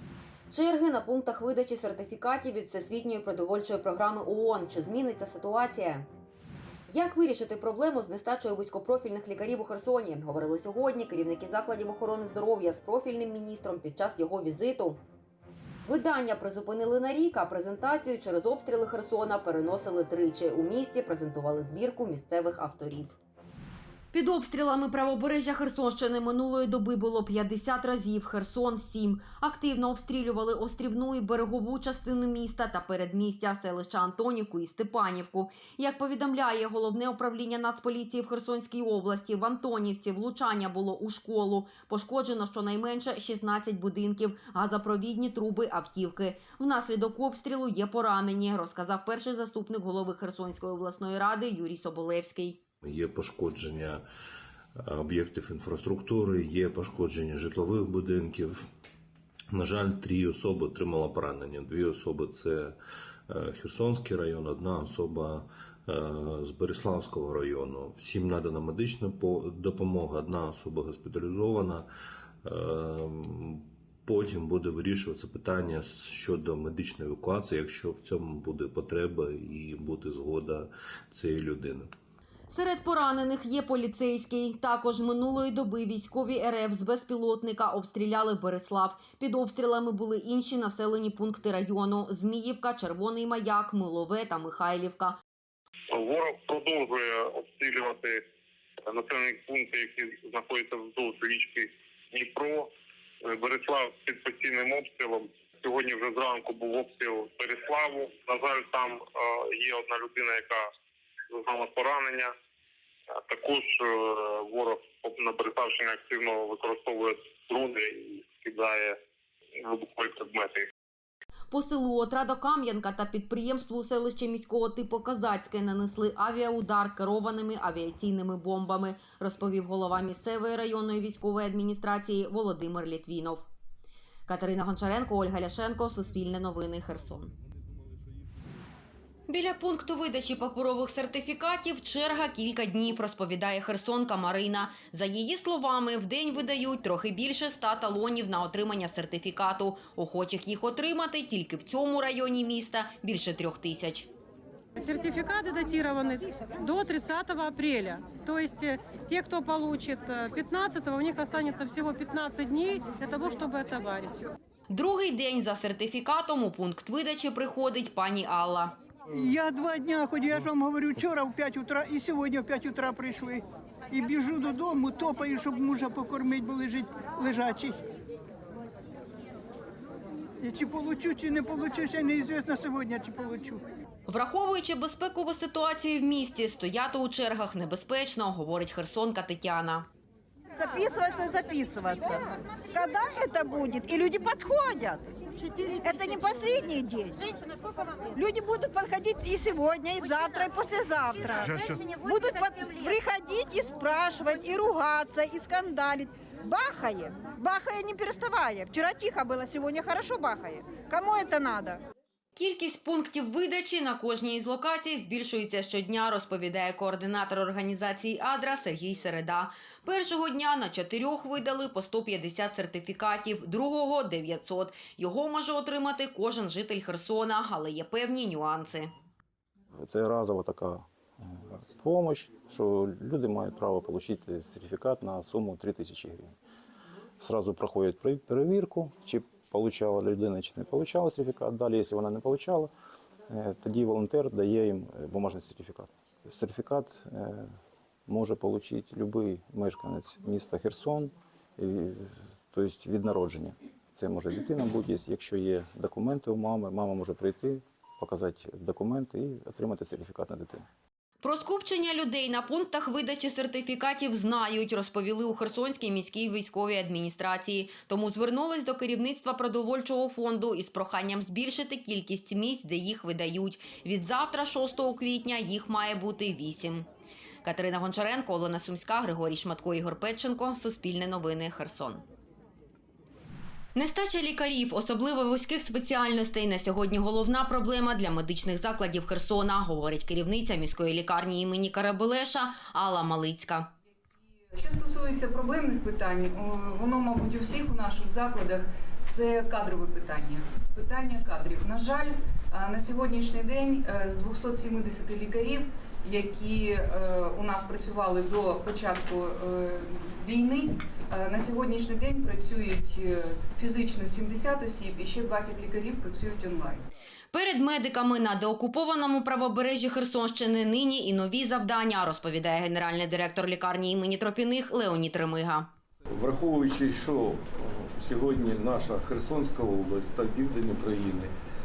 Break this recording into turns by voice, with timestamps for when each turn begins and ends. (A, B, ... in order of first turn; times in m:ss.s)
0:00.5-0:06.1 A
0:06.9-0:15.0 A
0:15.9-0:23.2 A
0:24.1-0:52.6 A
0:52.8-0:54.0 B
0:54.8-0:58.6 B
0:59.5-1:02.8 B
1:03.3-1:11.9 B
1:12.4-1:21.9 B
1:22.5-1:35.2 A
1:35.9-1:38.1 C
1:38.9-1:42.7 C
1:43.3-1:49.0 C
1:49.6-1:50.6 C
1:51.3-1:52.3 C
1:53.3-1:53.8 C
1:54.4-1:58.8 C
1:59.7-2:00.6 C
2:01.5-2:13.5 A
2:14.3-2:17.3 A
2:19.3-2:34.1 A
2:34.8-2:44.2 D
2:44.7-2:48.8 A
2:49.2-2:57.8 E
3:00.4-3:03.6 E
3:04.1-3:09.9 A
3:10.6-3:12.2 F
3:12.7-3:15.1 F
3:15.8-3:17.2 F
3:18.1-3:31.8 F
3:21.6-3:22.0 E
3:32.4-3:48.9 A
3:49.8-3:56.3 G
3:57.2-4:02.7 G
4:03.3-4:07.5 G
4:08.1-4:20.6 G
4:21.2-4:36.9 A
4:37.4-4:42.0 A
4:43.8-4:53.7 A
4:54.6-5:16.8 H
5:17.3-5:25.7 A
5:26.2-5:31.3 I